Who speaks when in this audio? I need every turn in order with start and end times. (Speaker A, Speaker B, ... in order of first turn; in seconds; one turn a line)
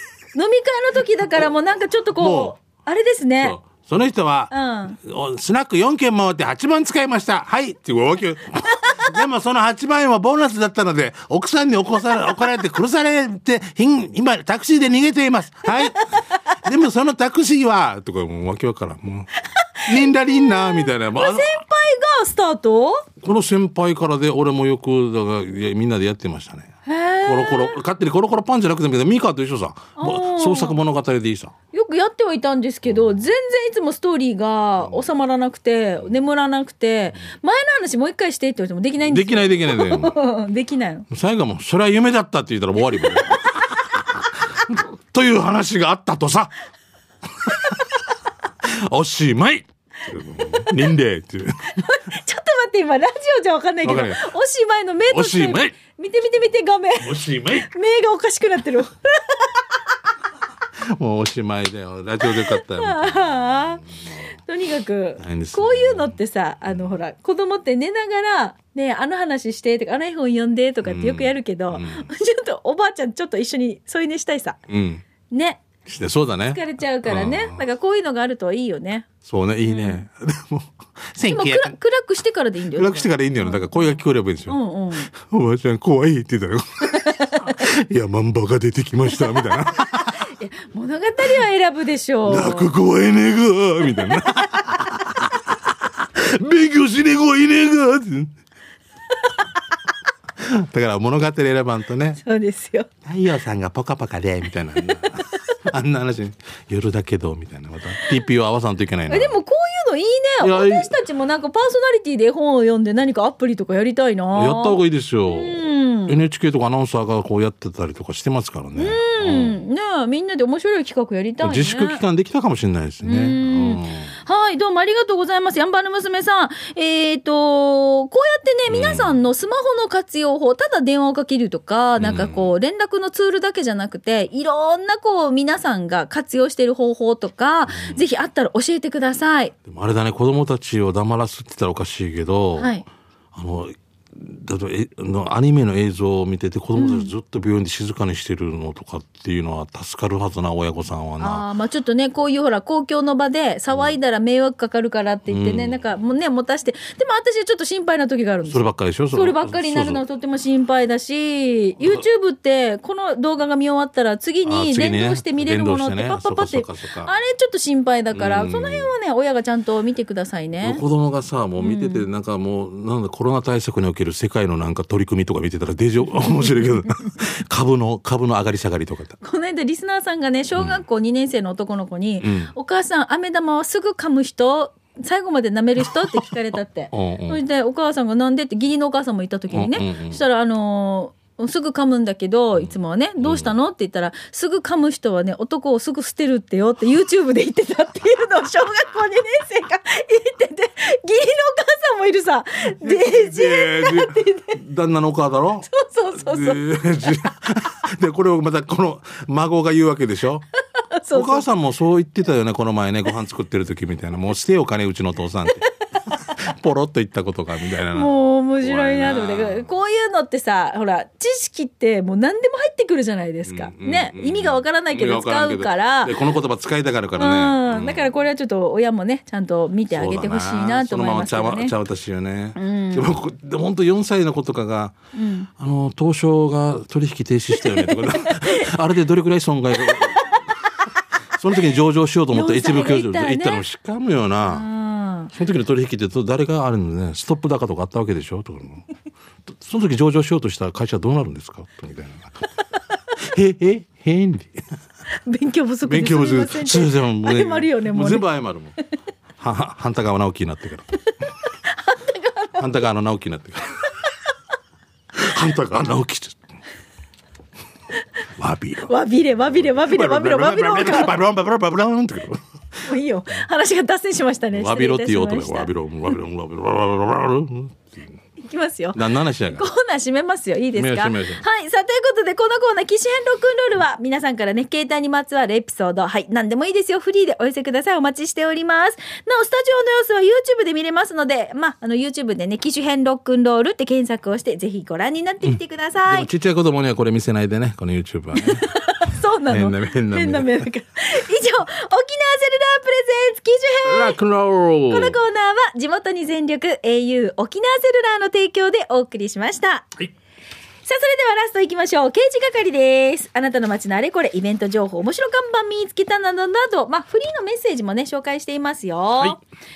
Speaker A: 0.3-3.6
Speaker B: 2.2-2.5
Speaker B: 3.4-19.3
Speaker A: 4.5-5.0
Speaker A: 19.6-23.1
Speaker B: 19.9-21.6
Speaker B: 23.2-26.7
Speaker A: 26.8-27.8
Speaker B: 27.2-31.5
Speaker A: 30.0-30.8
Speaker A: 31.7-41.1
Speaker B: 39.0-40.1
Speaker B: 41.1-46.5
Speaker A: 42.9-43.4
Speaker B: 47.4-47.8
Speaker B: 48.6-51.8
Speaker A: 51.7-59.6
Speaker B: 53.8-54.2
Speaker B: 55.1-55.7
Speaker B: 57.0-57.7
Speaker B: 60.9-64.0
Speaker A: 62.2-63.8
Speaker A: 64.5-74.6
Speaker B: 65.2-66.2
Speaker B: 70.8-72.1
Speaker B: 74.7-75.0
Speaker A: 75.3-75.6
Speaker B: 75.9-77.6
Speaker A: 76.5-79.1
Speaker B: 79.2-81.7
Speaker A: 79.6-80.0
Speaker A: 81.3-85.1
Speaker B: 82.7-90.2
Speaker A: 86.9-87.6
Speaker A: 89.2-92.7
Speaker B: 92.2-95.4
Speaker A: 93.9-94.6
Speaker B: 96.0-98.3
Speaker B: 100.4-102.2
Speaker A: 102.2-102.9
Speaker B: 103.0-109.4
Speaker A: 109.1-116.2
Speaker B: 110.4-110.9
Speaker B: 114.3-119.6
Speaker A: 118.8-122.0
Speaker B: 121.4-124.1
Speaker A: 123.0-139.5
Speaker B: 128.7-129.1
Speaker B: 132.0-132.5
Speaker B: 137.7-138.0
Speaker B: 139.6-142.7
Speaker A: 142.6-142.8
Speaker B: 143.3-151.4
Speaker A: 146.8-147.1
Speaker A: 151.2-170.8
Speaker B: 155.3-155.8
Speaker B: 158.5-160.0
Speaker B: 164.4-167.1
Speaker B: 168.1-168.9
Speaker B: 170.6-179.2
Speaker A: 171.6-172.1
Speaker A: 179.2-204.6
Speaker B: 180.6-180.8
Speaker B: 182.2-182.5
Speaker B: 185.9-186.2
Speaker B: 186.9-187.4
Speaker B: 189.5-190.2
Speaker B: 192.6-193.5
Speaker B: 202.8-210.4
Speaker A: 205.7-207.1
Speaker A: 210.9-211.4
Speaker B: 211.1-219.7
Speaker A: 217.9-226.2
Speaker B: 223.4-228.1
Speaker A: 227.2-231.8
Speaker B: 229.9-234.9
Speaker A: 232.6-233.1
Speaker A: 235.1-235.5
Speaker B: 235.6-240.4
Speaker A: 237.5-238.7
Speaker A: 239.8-240.4
Speaker B: 241.4-244.7
Speaker A: 242.3-243.6
Speaker A: 244.4-245.3
Speaker B: 245.3-248.8
Speaker B: 249.5-252.4
Speaker B: 253.2-254.6
Speaker A: 255.2-258.3
Speaker B: 255.8-258.8
Speaker B: 259.4-260.9
Speaker A: 261.6-262.7
Speaker B: 262.6-263.9
Speaker B: 265.1-266.4
Speaker B: 268.4-268.9
Speaker A: 268.9-271.1
Speaker B: 269.5-272.4
Speaker A: 272.9-275.7
Speaker B: 274.5-278.1
Speaker A: 278.4-296.3
Speaker B: 278.9-279.6
Speaker B: 280.7-281.4
Speaker B: 295.4-300.7
Speaker A: 298.4-304.2
Speaker B: 303.9-305.2
Speaker A: 304.9-309.9
Speaker A: 310.9-319.4